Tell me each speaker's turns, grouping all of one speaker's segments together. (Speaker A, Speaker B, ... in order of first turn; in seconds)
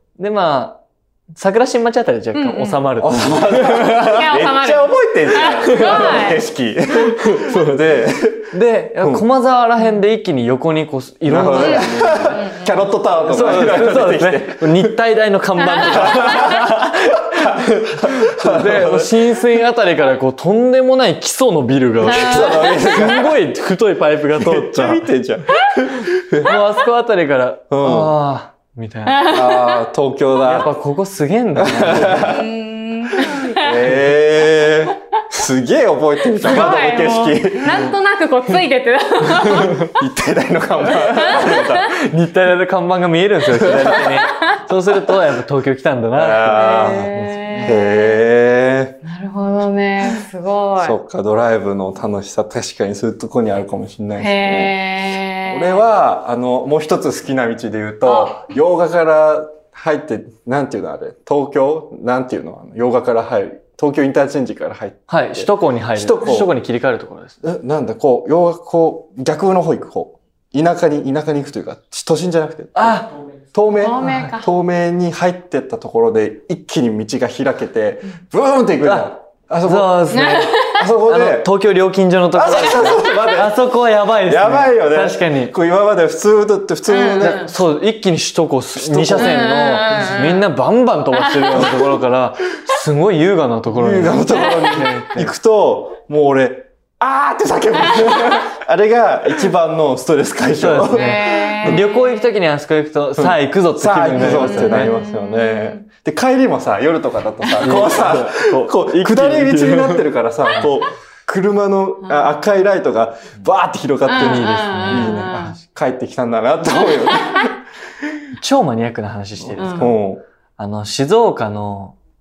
Speaker A: 0.2-0.8, 1.3-4.2, 5.6-6.2, 7.0-7.8, 8.5-12.5, 13.2-25.1, 26.4-29.4, 30.4-32.3, 41.5-47.8, 65.1-67.4, 72.8-73.2, 74.0-74.3, 78.8-79.1, 79.6-85.5, 87.2-95.3, 100.6-104.9, 107.5-110.1, 114.1-115.2, 118.4-120.0, 120.6-122.0
Speaker B: 2.4-2.9, 3.6-6.4, 11.5-12.8, 15.8-16.5, 22.1-23.3, 29.1-29.9, 32.1-33.9, 36.4-39.9, 41.0-41.8, 46.5-48.2, 49.0-51.0, 54.2-55.8, 58.0-58.4, 73.8-74.5, 80.1-80.9, 86.9-87.5, 89.2-90.4, 91.2-91.7, 98.0-98.4, 100.9-102.1, 104.2-105.8, 114.1-115.6, 116.8-117.5, 119.6-119.9
Speaker C: 3.0-9.3, 11.3-15.0, 15.8-19.4, 22.1-23.4, 24.4-26.5, 27.7-28.2, 29.2-30.7, 31.6-32.5, 33.1-37.9, 39.4-41.9, 43.6-44.2, 46.1-49.0, 50.8-54.8, 55.5-66.5, 67.4-81.5, 82.3-87.5, 88.8-89.5, 93.8-101.8, 103.2-118.2, 119.5-120.2